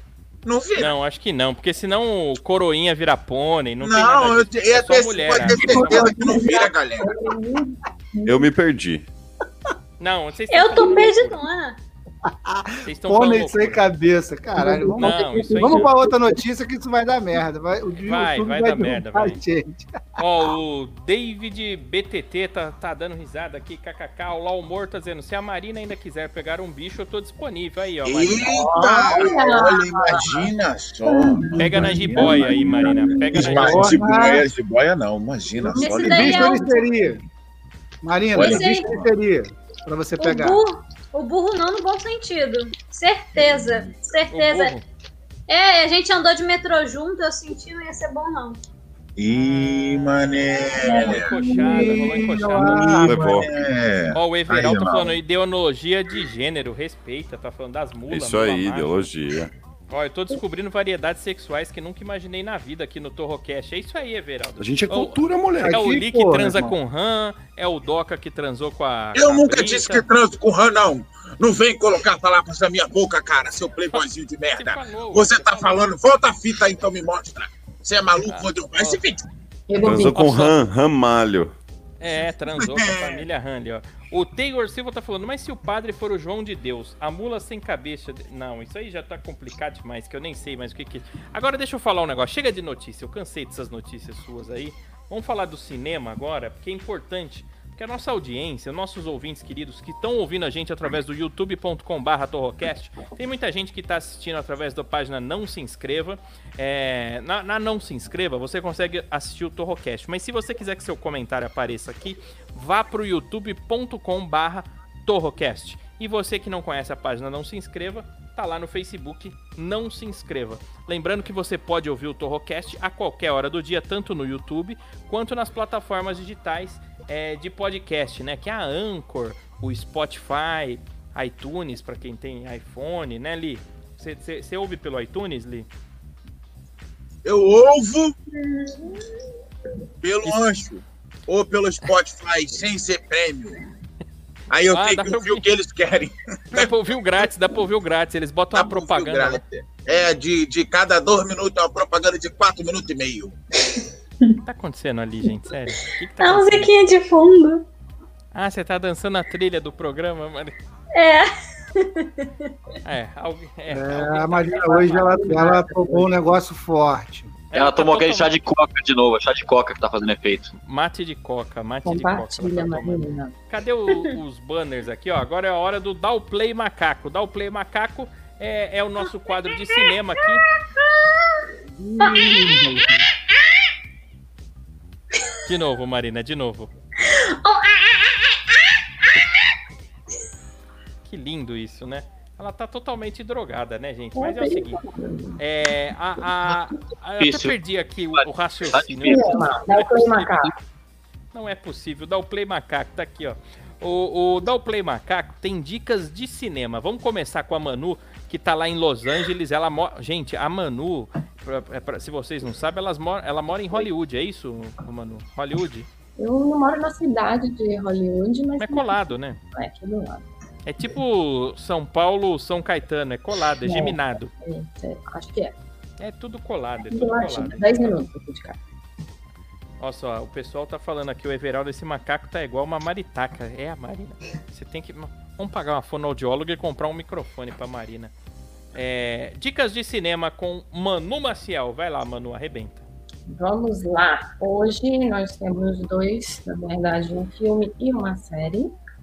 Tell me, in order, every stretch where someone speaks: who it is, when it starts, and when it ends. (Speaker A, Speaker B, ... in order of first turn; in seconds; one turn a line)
Speaker A: 0.4-0.9
Speaker B: 0.8-6.1
Speaker A: 3.8-7.1
Speaker C: 5.5-8.5
Speaker D: 5.8-6.5
Speaker E: 8.2-9.1
Speaker B: 10.0-11.4
Speaker F: 10.5-11.8
Speaker D: 12.2-20.0
Speaker B: 12.8-13.8
Speaker C: 14.6-16.3
Speaker B: 14.9-15.9
Speaker B: 18.0-19.4
Speaker B: 20.2-28.6
Speaker A: 28.0-36.5
Speaker C: 28.5-30.5
Speaker C: 31.1-34.4
Speaker D: 31.5-34.4
Speaker B: 31.6-34.0
Speaker C: 35.6-36.0
Speaker F: 35.8-36.9
Speaker D: 35.8-37.2
Speaker D: 38.0-40.6
Speaker F: 38.3-38.9
Speaker A: 38.4-39.0
Speaker F: 40.2-44.7
Speaker B: 44.3-44.8
Speaker F: 45.5-48.6
Speaker A: 49.2-51.3
Speaker B: 49.3-53.1
Speaker C: 50.8-52.2
Speaker D: 51.5-53.5
Speaker A: 52.7-55.1
Speaker E: 53.0-53.5
Speaker B: 54.1-59.0
Speaker E: 58.1-59.5
Speaker B: 59.9-70.1
Speaker E: 64.6-65.8
Speaker D: 65.6-66.8
Speaker A: 69.1-79.2
Speaker B: 73.9-75.8
Speaker B: 78.2-79.0
Speaker C: 79.7-80.2
Speaker E: 79.8-81.5
Speaker B: 80.0-80.5
Speaker B: 82.0-135.7
Speaker A: 82.5-83.2
Speaker A: 137.2-138.2
Speaker F: 138.4-138.9
Speaker A: 140.0-143.6
Speaker A: 144.5-146.7
Speaker B: 144.7-145.5
Speaker B: 146.5-149.4
Speaker A: 148.5-153.3
Speaker B: 154.4-156.7
Speaker F: 156.2-157.7
Speaker B: 158.3-160.5
Speaker F: 160.9-162.3
Speaker B: 162.8-165.4
Speaker D: 163.7-167.3
Speaker C: 164.7-166.2
Speaker B: 167.5-168.3
Speaker G: 167.5-170.5
Speaker B: 170.6-180.4
Speaker C: 171.8-173.3
Speaker F: 180.8-181.4
Speaker D: 181.7-183.0
Speaker F: 182.0-183.0
Speaker B: 185.4-186.7
Speaker F: 187.1-188.3
Speaker B: 191.0-194.8
Speaker C: 194.1-195.4
Speaker B: 195.4-200.2
Speaker G: 197.2-197.6
Speaker G: 198.1-199.3
Speaker C: 199.0-200.6
Speaker B: 201.3-215.9
Speaker C: 216.2-220.2
Speaker B: 218.6-219.4
Speaker B: 220.7-224.3
Speaker C: 223.6-225.6
Speaker B: 226.0-228.0
Speaker C: 226.9-228.6
Speaker B: 229.8-238.1
Speaker B: 238.7-242.8
Speaker C: 243.3-248.7